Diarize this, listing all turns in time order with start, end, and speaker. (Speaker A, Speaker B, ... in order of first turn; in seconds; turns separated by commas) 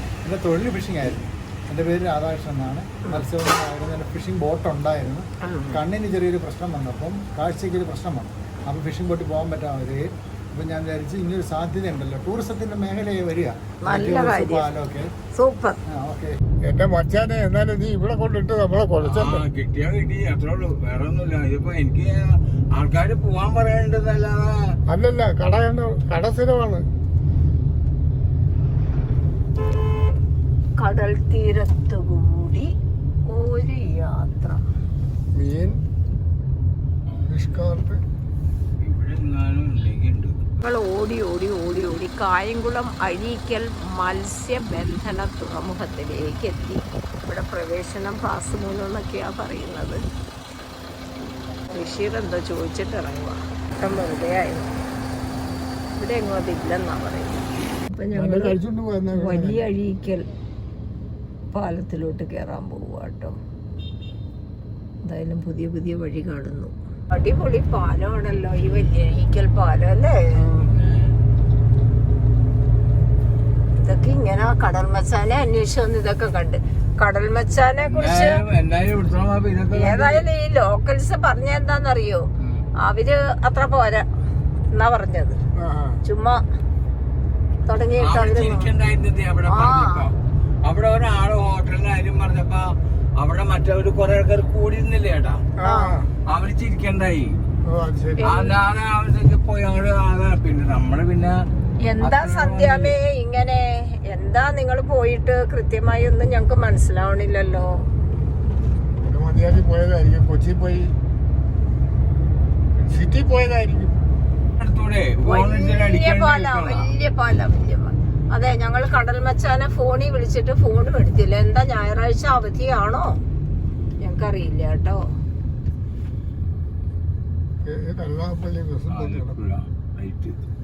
Speaker A: 0.2-15.1, Speaker B: 5.4-5.8, Speaker B: 13.8-14.7, Speaker B: 15.3-15.8, Speaker A: 15.8-16.4, Speaker C: 16.6-19.4, Speaker D: 19.0-24.8, Speaker C: 24.9-26.9, Speaker B: 30.8-32.7, Speaker B: 33.3-34.6, Speaker C: 35.3-35.8, Speaker C: 37.2-38.0, Speaker D: 38.8-40.4, Speaker B: 40.6-50.0, Speaker B: 51.7-54.7, Speaker B: 56.0-58.6, Speaker C: 58.1-59.6, Speaker B: 59.1-60.3, Speaker B: 61.5-63.4, Speaker B: 65.0-70.5, Speaker D: 70.5-71.2, Speaker B: 73.8-78.4, Speaker D: 77.8-80.2, Speaker B: 79.7-82.3, Speaker D: 82.4-82.7, Speaker B: 82.8-84.1, Speaker B: 84.7-85.4, Speaker C: 85.6-86.0, Speaker B: 86.0-86.4, Speaker B: 87.7-88.7, Speaker D: 88.0-95.4, Speaker B: 89.4-90.1, Speaker C: 95.6-96.1, Speaker B: 95.6-96.0, Speaker D: 96.3-97.4, Speaker C: 97.6-98.4, Speaker B: 98.2-98.5, Speaker D: 98.2-101.4, Speaker B: 101.8-107.7, Speaker D: 102.0-103.0, Speaker C: 109.0-110.9, Speaker C: 112.8-113.9, Speaker D: 114.6-116.9, Speaker B: 115.2-123.2, Speaker B: 124.0-125.0, Speaker C: 127.6-129.3, Speaker D: 128.9-130.4